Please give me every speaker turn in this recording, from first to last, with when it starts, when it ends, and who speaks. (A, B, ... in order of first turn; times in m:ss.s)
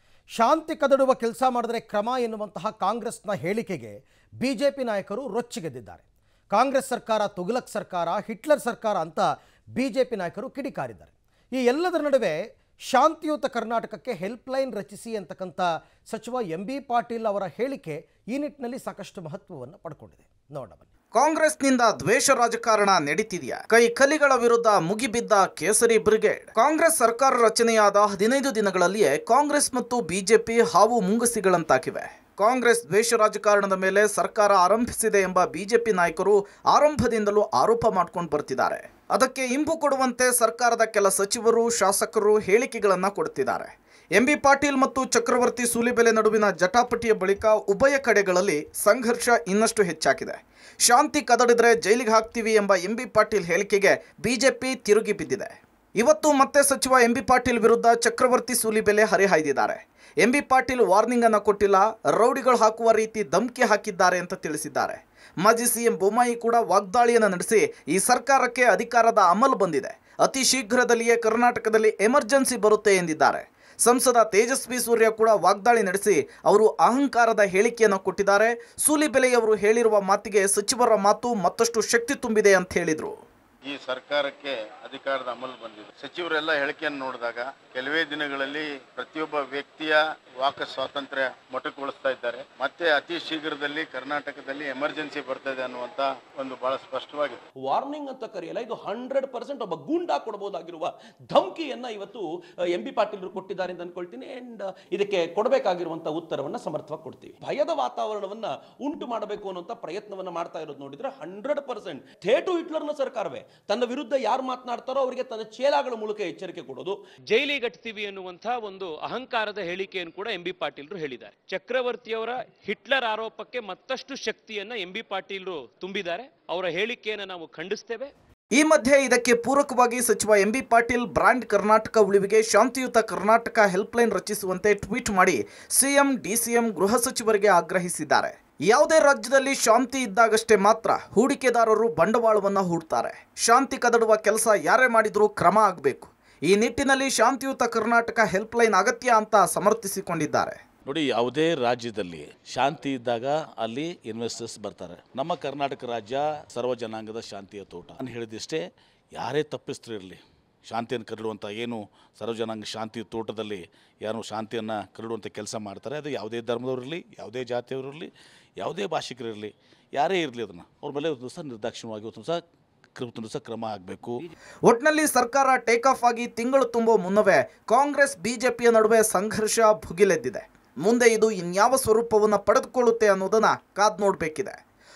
0:00.3-0:20.8 A
0:21.1-1:23.1 B
1:23.6-1:37.4 C
1:37.6-1:57.0 D
1:57.3-2:08.1 E
2:08.5-2:30.6 B
2:30.8-2:52.4 F
2:53.0-2:54.2 F
2:54.6-3:04.6 B